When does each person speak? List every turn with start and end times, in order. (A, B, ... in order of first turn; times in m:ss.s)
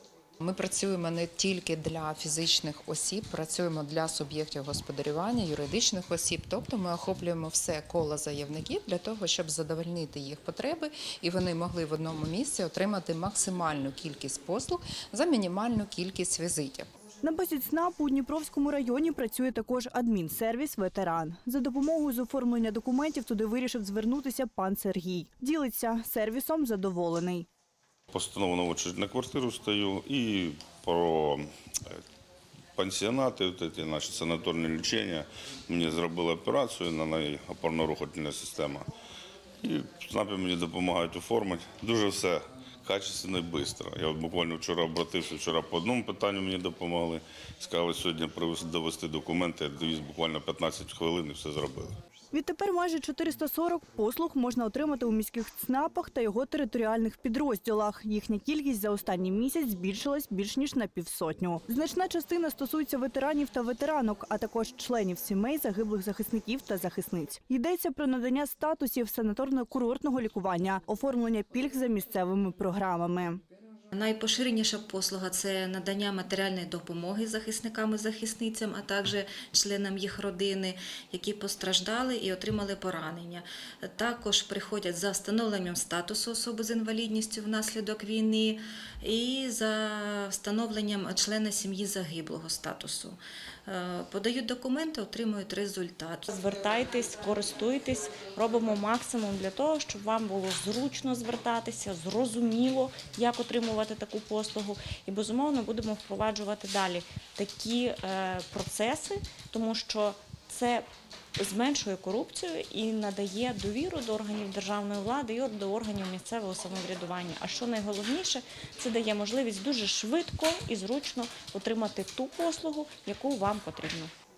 0:00.4-0:16.9 A
0:17.2-0:27.5 B
0:28.1-0:32.0 C
0:32.8-0:38.9 C
0:39.6-0:51.9 C
0:52.3-1:13.4 B
1:13.9-1:36.3 D
1:36.3-1:50.9 E
1:51.4-2:04.1 E